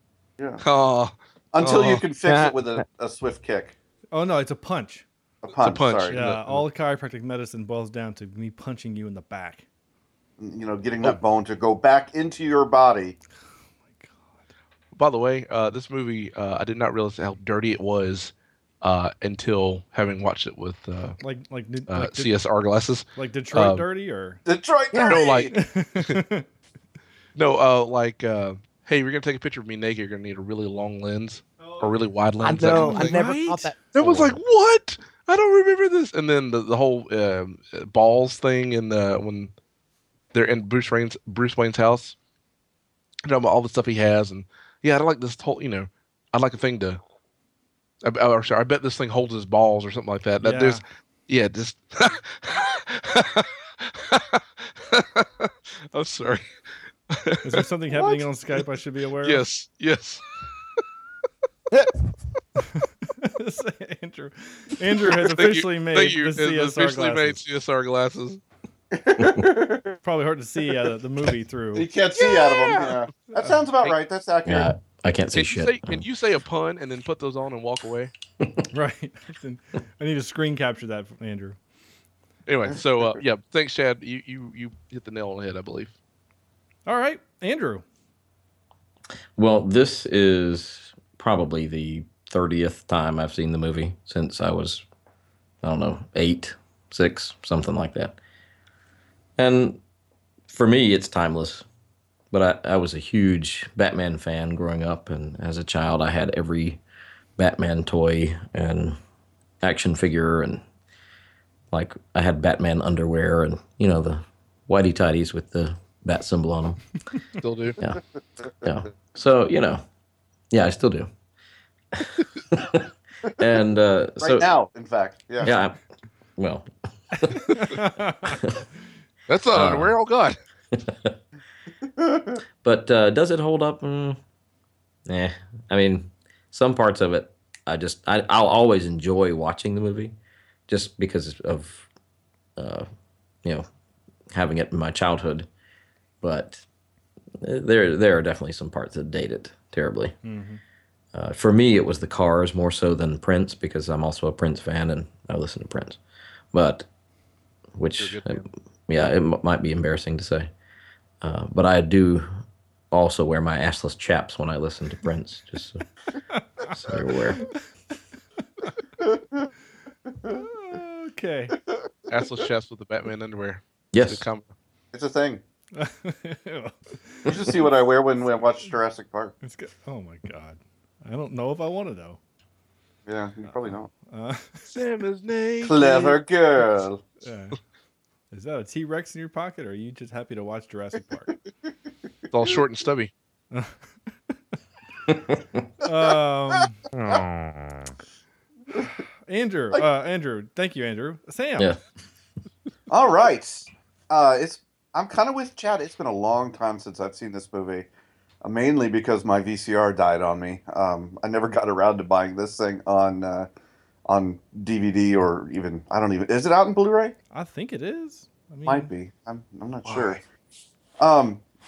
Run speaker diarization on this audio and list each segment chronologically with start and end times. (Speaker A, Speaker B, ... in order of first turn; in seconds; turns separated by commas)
Speaker A: 0.6-1.9, Speaker B: 1.5-3.8, Speaker C: 1.6-2.0, Speaker D: 1.6-2.8, Speaker C: 4.1-5.0, Speaker B: 5.4-6.2, Speaker A: 5.5-6.6, Speaker C: 6.1-9.6, Speaker B: 10.4-13.2, Speaker C: 13.9-14.4, Speaker A: 14.9-21.2, Speaker C: 21.2-22.3, Speaker A: 21.9-23.8, Speaker C: 23.1-24.4, Speaker B: 24.4-25.5, Speaker D: 24.9-25.2, Speaker A: 25.1-26.2, Speaker C: 25.5-26.4, Speaker A: 27.4-33.3, Speaker C: 31.6-33.7, Speaker D: 32.4-34.3, Speaker A: 33.9-39.5, Speaker A: 40.3-42.1, Speaker A: 43.2-47.0, Speaker A: 48.0-56.5, Speaker C: 50.4-50.8, Speaker A: 57.1-57.6, Speaker C: 57.4-59.4, Speaker A: 59.2-60.4, Speaker C: 62.7-67.4, Speaker A: 65.1-68.4, Speaker B: 68.9-70.0, Speaker C: 70.0-71.8, Speaker B: 71.7-74.7, Speaker C: 73.3-73.6, Speaker E: 74.5-76.0, Speaker A: 75.3-78.1, Speaker C: 78.7-81.6, Speaker A: 82.5-85.9, Speaker B: 82.7-83.2, Speaker C: 86.9-87.8, Speaker E: 89.3-94.8, Speaker E: 95.6-98.2, Speaker E: 99.4-99.8, Speaker E: 100.5-101.6, Speaker E: 102.3-106.8, Speaker E: 107.4-109.0, Speaker E: 109.6-110.6, Speaker E: 111.7-116.8, Speaker A: 117.4-117.8, Speaker E: 118.6-119.8, Speaker E: 120.5-121.1, Speaker E: 122.0-122.8, Speaker E: 123.4-124.5, Speaker B: 124.2-125.5, Speaker E: 125.4-125.8, Speaker E: 126.4-127.4, Speaker C: 127.5-128.4, Speaker A: 129.3-130.4, Speaker E: 129.5-129.9, Speaker E: 130.7-131.1, Speaker B: 132.0-132.4, Speaker E: 132.6-134.2, Speaker E: 135.1-140.2, Speaker E: 140.7-141.9, Speaker E: 142.6-142.9, Speaker E: 144.3-145.5, Speaker E: 146.2-146.6, Speaker E: 147.4-150.2, Speaker C: 150.2-150.6, Speaker E: 151.1-156.0, Speaker E: 156.5-156.8, Speaker E: 157.8-160.5, Speaker A: 158.0-158.4, Speaker E: 161.2-162.3, Speaker E: 162.9-165.8, Speaker C: 166.3-166.7, Speaker E: 166.7-167.4, Speaker B: 169.0-169.5, Speaker C: 170.3-171.5, Speaker A: 172.1-174.5, Speaker E: 173.9-174.2, Speaker B: 174.9-175.4, Speaker C: 175.7-177.3, Speaker B: 177.3-179.3, Speaker C: 179.4-182.2, Speaker B: 183.1-183.9, Speaker C: 183.5-184.7, Speaker A: 184.7-186.2, Speaker B: 185.6-187.0, Speaker C: 187.2-187.6, Speaker C: 188.3-191.3, Speaker A: 192.3-193.1, Speaker C: 193.5-193.8, Speaker C: 195.8-196.8, Speaker D: 196.9-197.9, Speaker C: 199.3-201.7, Speaker B: 202.9-207.9, Speaker B: 208.4-213.5, Speaker B: 214.1-217.2, Speaker C: 217.3-218.9, Speaker B: 218.7-220.2, Speaker C: 219.8-220.2, Speaker B: 221.0-221.4